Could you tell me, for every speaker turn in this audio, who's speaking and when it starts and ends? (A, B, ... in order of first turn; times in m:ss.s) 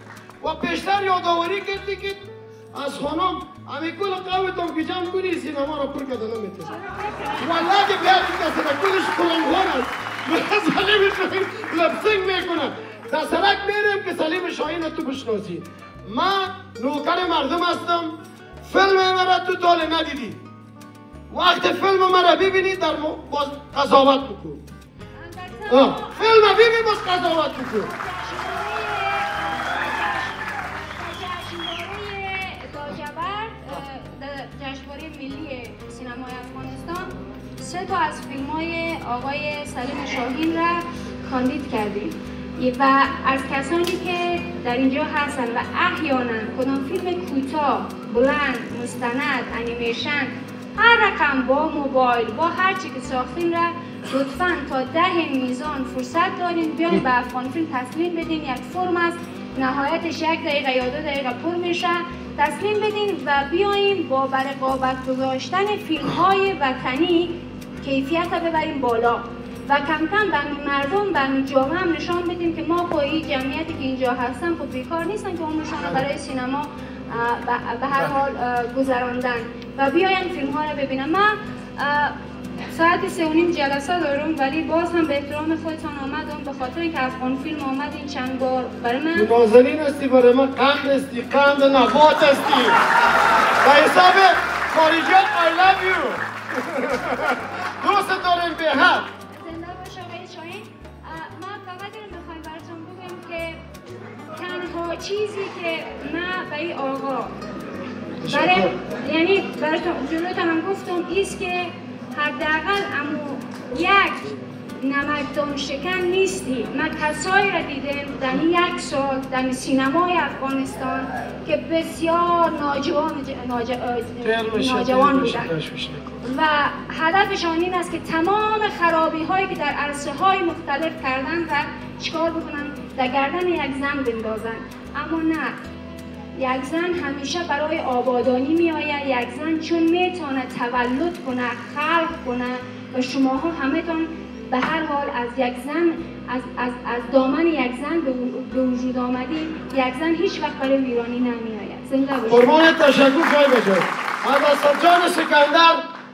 0:00.4-0:06.7 A
0:06.7-0:07.8 B
0:07.4-0:20.4 A
0:21.3-0:24.6 A
0:25.2-1:22.2 B
0:25.7-0:27.9 A
1:22.7-1:29.3 B
1:29.1-1:32.8 A
1:33.6-1:39.1 A
1:39.3-1:43.6 B
1:44.3-1:47.3 B
1:48.2-1:48.7 A
1:48.3-2:05.5 B
2:04.2-2:06.2 A
2:06.2-2:15.6 B
2:16.4-2:32.6 B
2:32.3-2:35.8 A